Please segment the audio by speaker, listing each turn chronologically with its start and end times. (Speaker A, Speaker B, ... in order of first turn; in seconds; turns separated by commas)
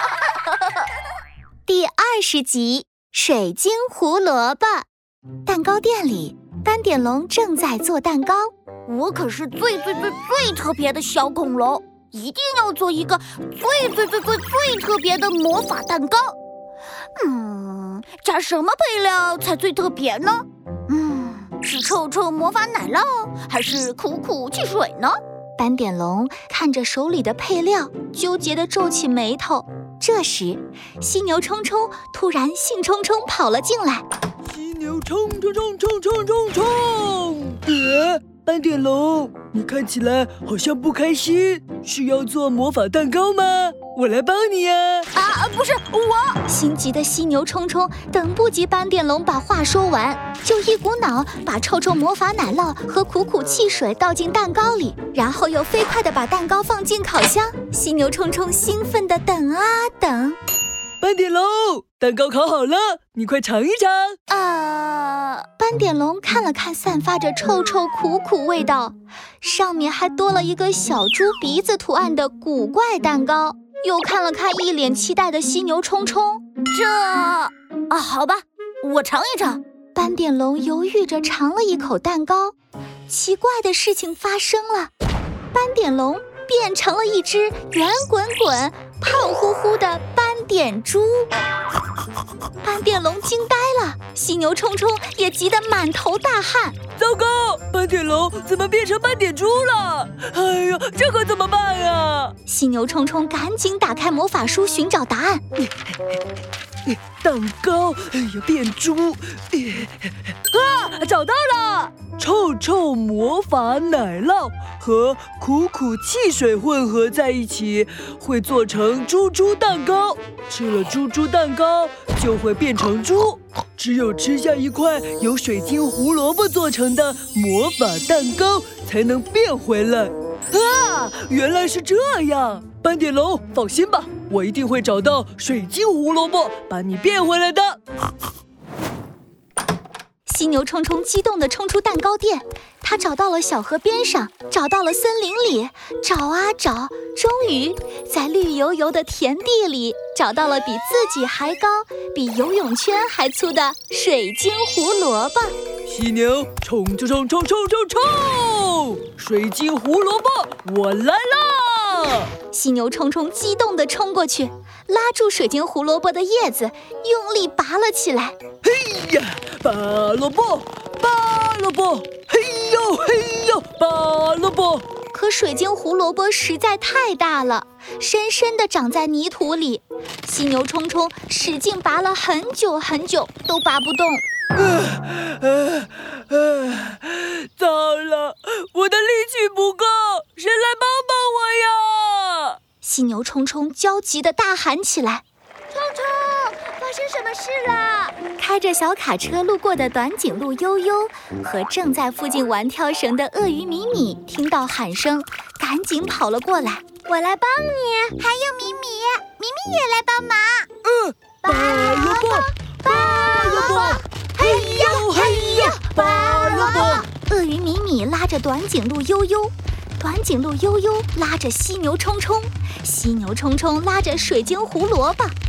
Speaker A: 1.7-4.9, Speaker A: 5.5-8.5, Speaker B: 8.9-16.4, Speaker B: 17.2-25.2, Speaker A: 25.6-34.0, Speaker C: 34.5-45.1, Speaker B: 45.1-46.4, Speaker A: 46.5-60.4, Speaker C: 61.0-64.2, Speaker B: 64.3-65.5, Speaker A: 65.6-76.4, Speaker B: 76.7-79.6, Speaker A: 80.0-82.5, Speaker A: 83.1-84.9, Speaker A: 85.5-91.3, Speaker A: 92.6-96.8, Speaker C: 97.0-102.3, Speaker A: 102.5-105.4, Speaker C: 106.9-137.8, Speaker A: 140.3-155.6, Speaker C: 155.9-162.3, Speaker A: 162.5-168.4, Speaker C: 168.6-174.8, Speaker A: 175.1-184.2, Speaker C: 184.6-192.6, Speaker A: 192.8-195.2, Speaker B: 195.7-198.2, Speaker A: 198.4-206.9, Speaker B: 207.1-210.7, Speaker C: 210.8-217.1, Speaker B: 211.4-217.0, Speaker A: 216.8-225.3